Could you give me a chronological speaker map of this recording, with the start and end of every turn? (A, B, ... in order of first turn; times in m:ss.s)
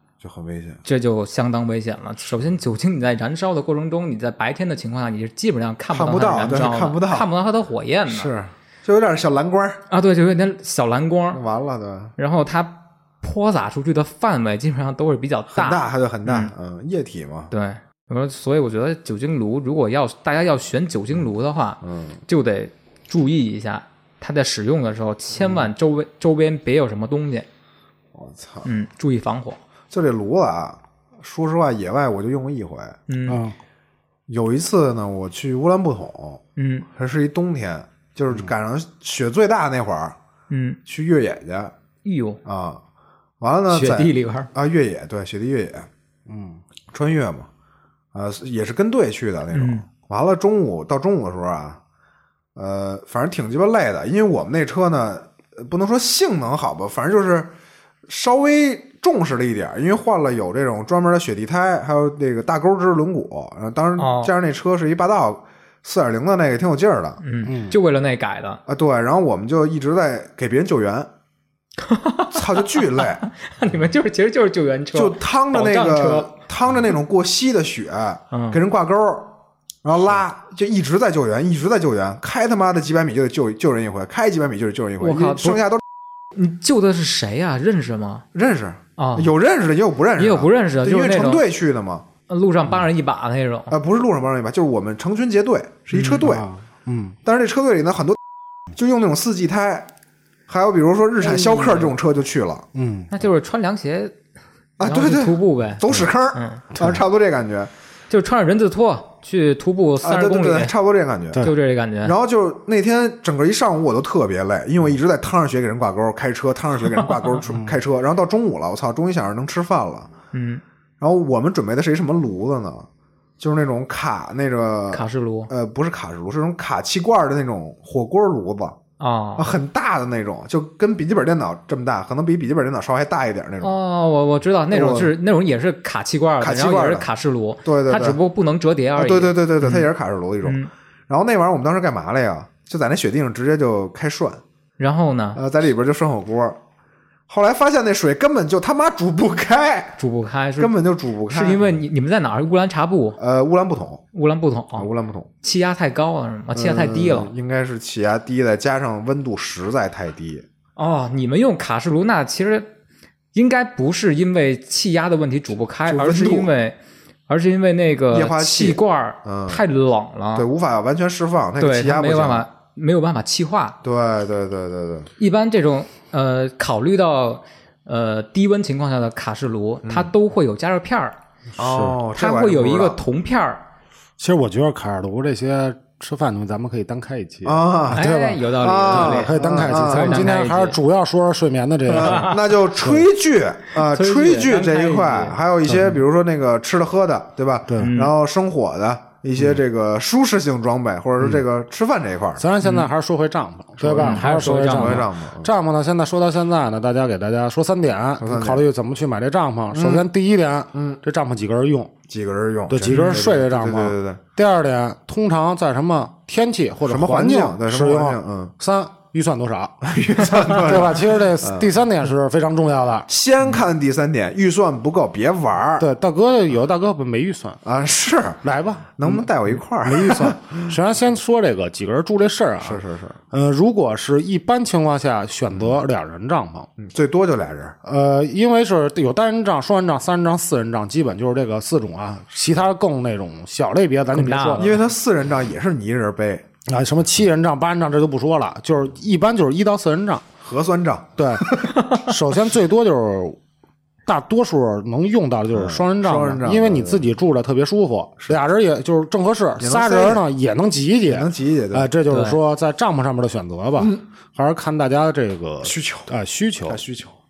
0:00.2-0:00.8 A
0:00.8-0:08.3 B
0:05.9-0:07.3 A
0:08.1-0:09.8 A
0:09.9-0:11.4 B
0:11.3-0:12.1 A
0:12.2-0:16.5 B
0:15.5-0:17.5 A
0:17.5-0:27.5 B
0:21.8-0:22.2 A
0:25.3-0:25.7 A
0:28.1-0:28.7 A
0:28.6-0:29.6 B
0:29.9-0:33.0 A
0:33.1-0:33.4 B
0:33.3-0:33.6 C
0:34.3-0:36.4 A
0:36.6-0:36.9 B
0:36.9-0:40.2 A
0:40.5-0:40.8 B
0:40.8-0:41.7 A
0:42.0-0:42.4 B
0:42.4-0:42.8 A
0:43.4-0:45.9 A
0:43.7-0:44.5 B
0:46.3-0:46.6 C
0:46.9-0:47.5 A
0:48.1-0:51.8 A
0:49.5-0:49.8 B
0:52.6-0:57.5 A
0:58.1-1:07.2 A
1:04.0-1:04.3 B
1:07.2-1:08.6 B
1:07.4-1:07.8 C
1:08.7-1:11.1 A
1:11.8-1:16.3 B
1:12.3-1:13.2 A
1:14.9-1:25.8 A
1:18.3-1:18.6 B
1:25.0-1:25.6 B
1:26.3-1:28.2 B
1:28.3-1:32.0 A
1:29.0-1:29.3 B
1:30.2-1:31.4 B
1:32.3-1:33.7 B
1:33.7-1:36.4 A
1:35.9-1:36.2 B
1:36.2-1:37.2 C
1:37.2-1:38.2 A
1:38.7-1:39.9 A
1:40.5-1:42.7 A
1:41.2-1:41.9 B
1:42.7-1:43.1 C
1:43.1-1:44.1 B
1:44.8-1:47.7 A
1:44.8-1:46.6 B
1:48.1-1:50.7 B
1:50.0-1:51.5 A
1:51.4-1:52.1 B
1:52.0-2:00.1 A
1:57.5-1:57.7 C
2:00.3-2:00.6 B
2:01.0-2:02.9 A
2:03.4-2:08.8 A
2:04.9-2:05.5 B
2:09.0-2:09.5 B
2:09.4-2:13.8 A
2:13.6-2:19.9 B
2:14.7-2:15.1 A
2:16.4-2:17.1 A
2:17.6-2:18.2 A
2:19.0-2:24.4 A
2:20.4-2:20.7 B
2:24.8-2:25.4 B
2:25.4-2:26.6 A
2:27.3-2:30.0 A
2:30.0-2:33.2 B
2:30.6-2:31.8 A
2:33.2-2:34.0 A
2:34.1-2:34.9 B
2:34.8-2:35.3 A
2:35.4-2:37.3 B
2:36.5-2:40.4 A
2:40.8-2:42.7 B
2:43.3-2:46.8 B
2:45.8-2:46.5 A
2:47.3-2:50.5 B
2:48.1-2:49.6 A
2:50.3-2:52.4 A
2:51.6-2:53.8 B
2:53.8-2:55.1 A
2:55.2-3:01.2 B
2:59.8-3:00.1 A
3:01.6-3:03.0 A
3:01.6-3:02.0 C
3:02.1-3:03.6 B
3:04.2-3:13.0 C
3:07.4-3:08.1 A
3:07.9-3:10.8 B
3:08.6-3:10.3 A
3:11.9-3:22.4 A
3:11.9-3:12.4 B
3:13.7-3:15.4 B
3:15.6-3:16.0 C
3:17.7-3:17.9 C
3:17.8-3:18.1 B
3:22.4-3:31.9 C
3:22.6-3:22.9 B
3:23.8-3:25.5 A
3:24.0-3:25.1 B
3:28.2-3:28.6 A
3:29.7-3:30.0 A
3:30.7-3:31.0 A
3:32.1-3:34.2 A
3:32.7-3:43.1 C
3:32.9-3:33.2 B
3:36.8-3:38.5 A
3:39.8-3:41.7 A
3:43.1-3:45.9 A
3:45.8-3:47.6 C
3:47.6-3:48.4 A
3:48.4-3:56.7 C
3:49.0-3:50.7 A
3:52.6-3:53.2 A
3:56.8-3:57.8 A
3:57.8-4:04.7 C
4:04.1-4:04.8 B
4:04.6-4:06.4 A
4:06.7-4:10.2 C
4:10.4-4:11.8 A
4:11.2-4:13.4 C
4:14.0-4:26.8 C
4:15.5-4:17.1 A
4:19.6-4:20.2 A
4:21.0-4:21.9 A
4:22.1-4:22.4 B
4:25.6-4:26.1 A
4:26.7-4:27.1 A